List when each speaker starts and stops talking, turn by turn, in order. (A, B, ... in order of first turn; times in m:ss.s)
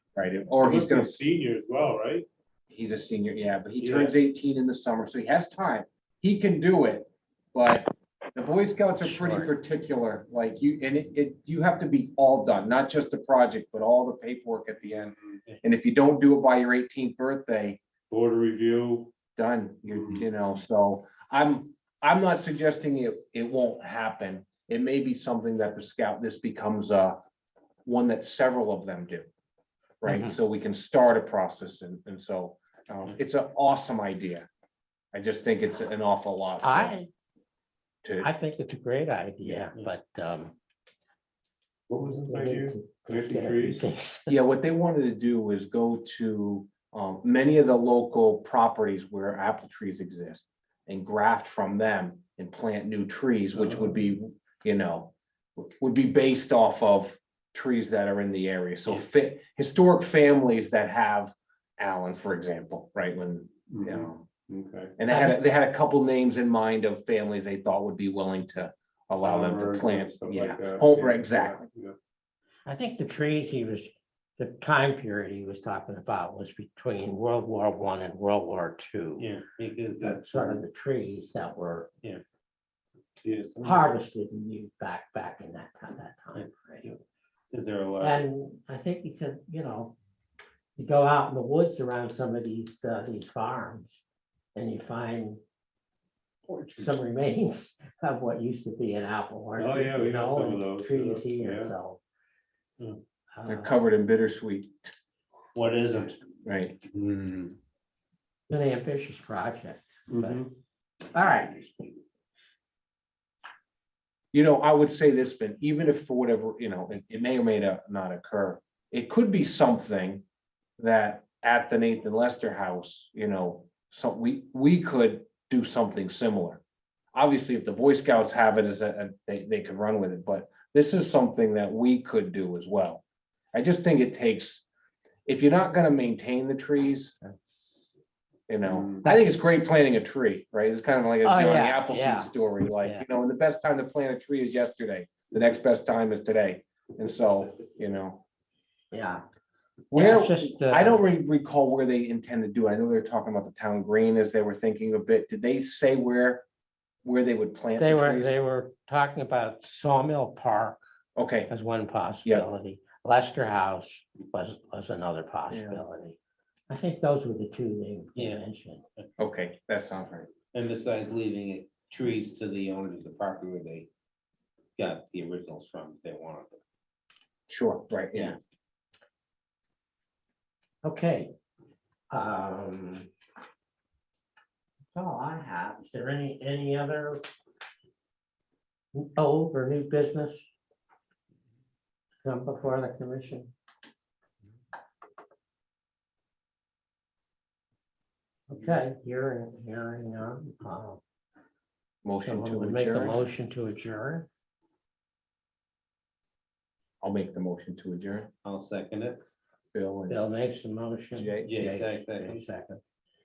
0:00.1-0:01.2 A
0:00.6-0:02.3 B
0:02.7-0:17.8 A
0:03.8-0:04.1 B
0:09.0-0:09.5 C
0:15.3-0:15.6 B
0:18.1-0:19.1 B
0:19.3-0:27.2 A
0:19.9-0:20.2 B
0:27.8-0:29.3 A
0:30.0-0:34.5 A
0:30.0-0:30.4 C
0:35.1-0:37.0 A
0:36.6-0:37.1 C
0:38.0-0:38.3 A
0:38.2-0:40.6 C
0:41.9-0:43.8 B
0:42.0-0:44.4 C
0:44.3-1:04.2 A
0:53.5-0:54.1 B
1:03.7-1:04.9 B
1:05.0-1:11.6 A
1:05.1-1:05.4 C
1:09.2-1:12.0 B
1:12.6-1:19.3 C
1:19.2-1:20.6 D
1:20.0-1:21.9 C
1:20.0-1:20.4 B
1:23.2-1:23.9 B
1:23.6-1:26.9 C
1:27.5-1:28.2 D
1:28.0-1:29.9 C
1:30.8-1:34.0 C
1:34.5-1:35.4 C
1:36.5-1:37.0 B
1:36.8-1:42.0 C
1:39.6-1:41.7 B
1:43.4-1:43.7 C
1:43.5-1:44.9 A
1:45.5-1:46.2 B
1:46.4-1:46.8 A
1:46.9-1:47.5 B
1:48.5-1:50.5 C
1:50.1-1:50.5 B
1:51.1-1:51.6 C
1:54.3-2:00.2 A
2:00.8-2:06.6 A
2:07.1-2:14.6 A
2:15.2-2:17.2 A
2:18.5-2:28.2 A
2:18.6-2:19.0 B
2:19.0-2:19.4 C
2:21.2-2:23.1 C
2:28.9-2:29.2 C
2:29.9-2:36.4 A
2:29.9-2:31.2 C
2:37.0-2:38.4 A
2:37.8-2:40.8 C
2:41.2-2:41.5 A
2:41.5-2:46.2 C
2:45.5-2:45.8 A
2:46.7-2:48.8 C
2:48.1-2:48.4 D
2:49.2-2:50.3 A
2:50.5-2:53.9 D
2:54.8-2:56.6 D
2:57.5-2:58.4 A
3:00.8-3:01.3 C
3:02.1-3:03.1 C
3:04.9-3:07.2 C
3:08.9-3:10.5 C
3:12.2-3:13.5 C
3:18.5-3:21.0 C
3:22.0-3:23.2 A
3:22.2-3:24.3 C
3:27.0-3:28.3 A
3:28.4-3:29.2 D
3:29.7-3:30.2 A
3:30.1-3:32.8 C
3:31.2-3:31.5 A
3:31.4-3:32.5 D